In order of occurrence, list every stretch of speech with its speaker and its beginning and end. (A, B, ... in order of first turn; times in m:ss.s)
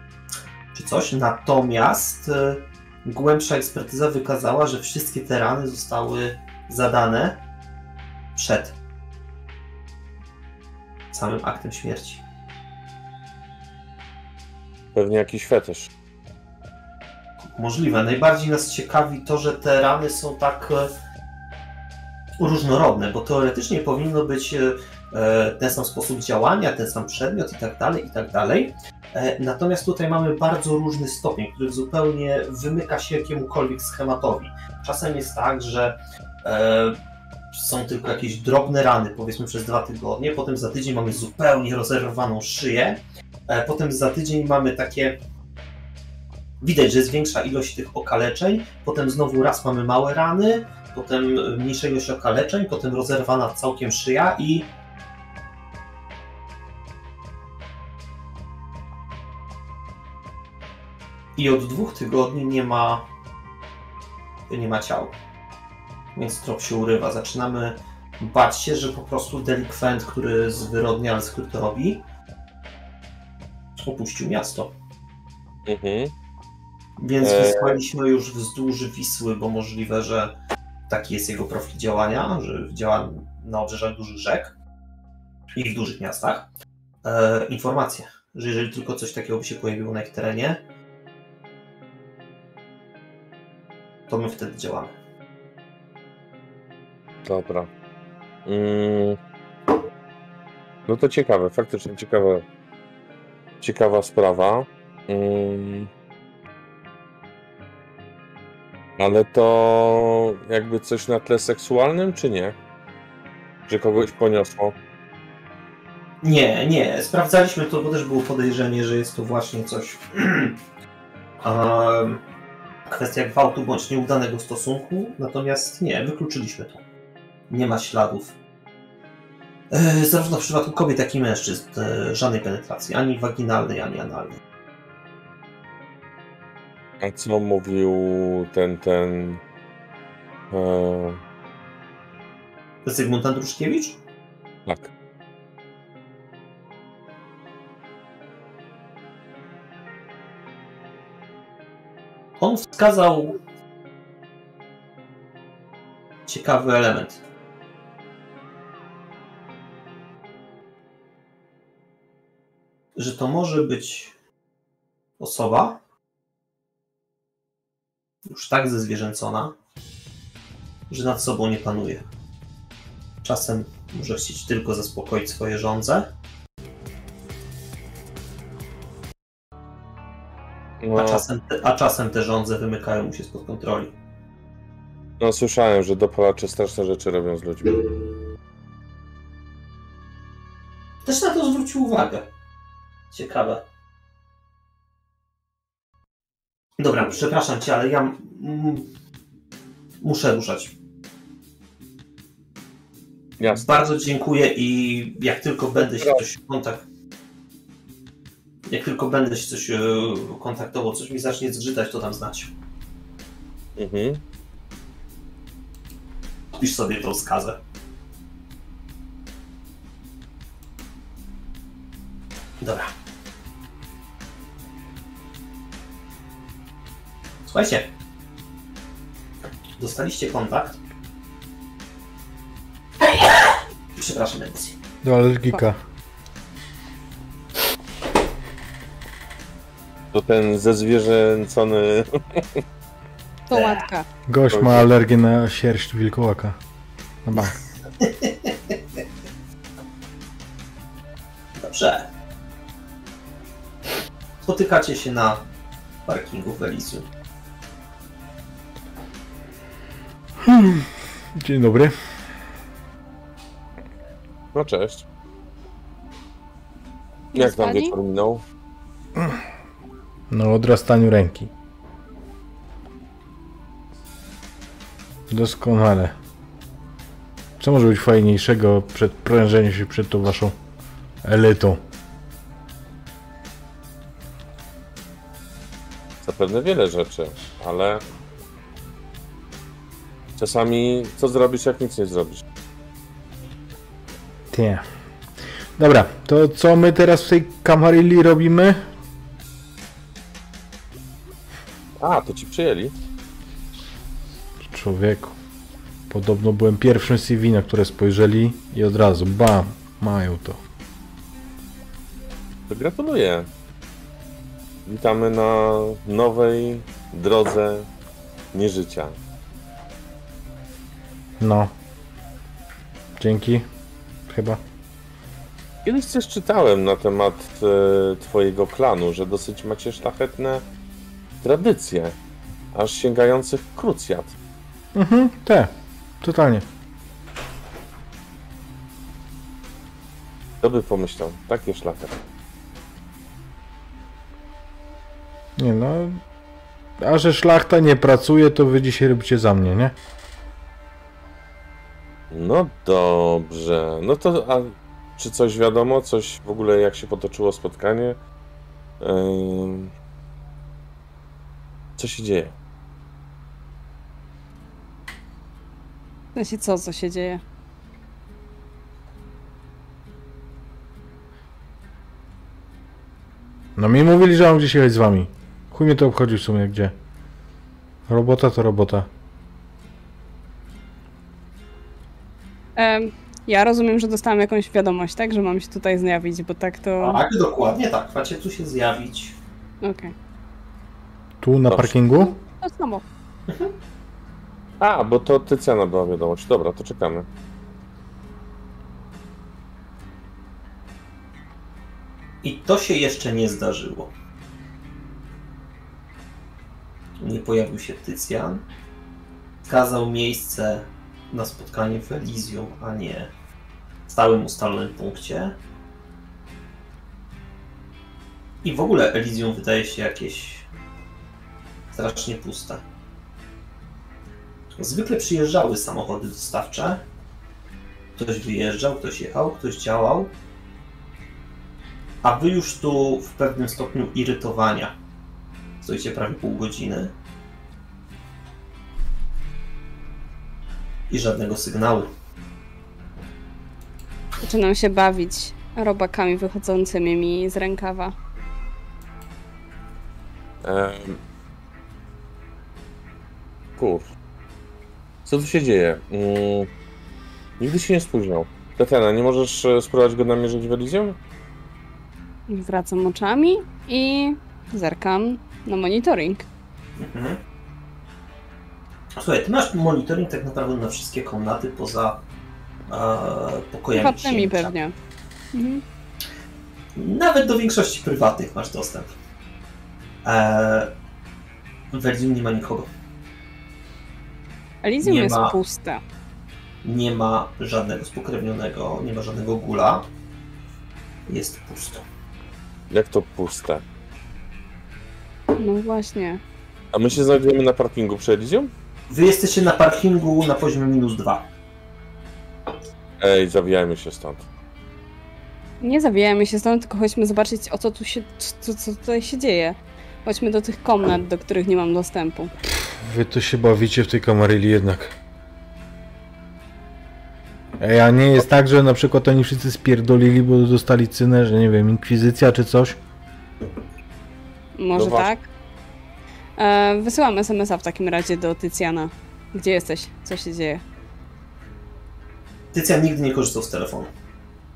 0:00.7-0:07.4 A
0:08.4-0:08.8 A
0:11.1-0:12.2 A
0:15.0-0:15.9 B
0:17.6-0:20.9 A
0:22.4-0:37.0 A
0:37.5-0:45.2 A
0:46.6-0:54.7 A
1:01.4-1:03.0 A
1:04.5-1:05.2 A
1:06.2-1:12.0 A
1:13.8-1:14.7 A
1:15.7-1:16.1 B
1:17.0-1:20.3 A
1:17.2-1:17.8 B
1:20.9-1:24.6 A
1:25.6-1:26.5 A
1:27.0-1:30.6 A
1:34.1-1:35.0 A
1:37.2-1:37.7 B
1:38.5-1:39.2 B
1:40.9-1:42.4 B
1:43.6-1:45.9 B
1:49.0-1:52.6 B
1:53.7-1:54.8 B
1:56.2-2:00.6 A
2:01.4-2:02.2 A
2:02.9-2:06.8 A
2:07.5-2:08.4 A
2:09.7-2:14.4 A
2:17.0-2:19.4 B
2:20.5-2:21.2 B
2:22.8-2:24.0 A
2:32.4-2:33.4 A
2:36.3-2:37.2 A
2:43.0-2:44.1 A
2:45.2-2:45.8 A
2:48.3-2:49.6 A
2:50.9-2:52.0 A
2:53.2-2:56.1 A
3:00.8-3:01.2 B
3:01.0-3:03.9 A
3:05.2-3:07.9 B
3:11.0-3:12.3 A
3:13.1-3:13.6 A
3:16.8-3:18.9 A
3:20.0-3:20.7 A
3:23.4-3:23.9 B
3:23.5-3:26.8 A
3:25.9-3:26.2 B
3:28.7-3:32.5 A
3:33.8-3:34.2 B
3:36.6-3:37.6 A
3:42.6-3:42.9 A
3:47.5-3:47.9 A
3:49.8-3:50.8 A
3:53.0-3:54.8 A
3:55.0-3:55.8 C
4:00.1-4:02.6 B
4:03.5-4:04.1 D
4:03.5-4:03.8 A
4:04.3-4:06.6 C
4:04.5-4:04.9 B
4:07.2-4:07.6 C
4:08.0-4:08.8 A
4:11.6-4:12.1 A
4:14.4-4:15.4 A
4:16.1-4:17.1 A
4:20.4-4:22.0 C
4:24.5-4:25.0 B
4:27.3-4:27.9 D
4:27.3-4:28.4 B
4:29.2-4:29.4 C
4:30.3-4:31.5 C
4:35.3-4:36.2 C
4:37.6-4:40.6 C
4:41.2-4:41.8 C
4:46.2-4:48.0 B
4:50.4-4:52.4 B
4:54.5-4:54.8 C
4:55.8-4:58.8 C
5:02.0-5:02.9 B
5:04.6-5:05.4 C
5:06.1-5:10.6 C
5:12.7-5:13.5 B
5:14.9-5:17.9 B
5:18.5-5:19.2 B
5:21.4-5:21.7 C
5:23.2-5:23.7 C
5:24.3-5:24.6 C
5:25.8-5:30.6 B
5:31.4-5:32.2 B
5:32.7-5:34.3 B
5:35.0-5:36.7 C
5:40.6-5:42.2 B
5:45.6-5:46.2 C
5:47.0-5:49.9 C
5:52.3-5:58.2 B
5:59.0-5:59.9 B
6:02.0-6:02.5 B
6:06.4-6:07.4 D
6:13.8-6:17.0 C
6:18.1-6:19.1 C
6:22.8-6:27.2 D
6:27.0-6:29.4 A
6:29.8-6:30.1 D
6:31.4-6:32.3 C
6:31.7-6:31.9 B
6:32.1-6:33.0 D
6:33.5-6:33.7 A
6:34.8-6:37.3 B
6:42.4-6:44.1 A
6:47.2-6:48.6 A
6:49.7-6:53.3 A
6:54.1-6:55.6 A
6:58.6-7:00.7 A
7:01.9-7:02.8 A
7:04.7-7:07.0 A
7:08.2-7:10.3 A
7:12.2-7:14.9 A
7:15.8-7:17.1 A
7:21.1-7:22.1 A
7:24.4-7:28.1 D
7:30.6-7:31.2 B
7:33.8-7:34.1 B
7:35.2-7:36.7 B
7:37.6-7:41.2 B
7:42.5-7:46.4 D
7:47.0-7:47.4 A
7:49.2-7:52.2 A
7:52.9-7:54.7 A
7:53.9-7:54.9 D
7:55.5-7:55.8 D
7:57.0-7:59.1 A
8:00.2-8:00.9 A
8:01.9-8:02.9 A
8:04.8-8:06.0 D
8:05.0-8:05.6 A
8:06.8-8:10.1 A
8:11.3-8:12.0 A
8:12.9-8:13.8 B
8:15.6-8:16.4 D
8:16.9-8:18.7 B
8:19.1-8:21.5 A
8:23.2-8:24.4 B
8:25.8-8:32.5 D
8:32.9-8:35.1 C
8:37.8-8:43.0 C
8:44.8-8:45.5 D
8:44.9-8:45.3 B
8:46.6-8:50.8 D
8:52.7-8:54.1 A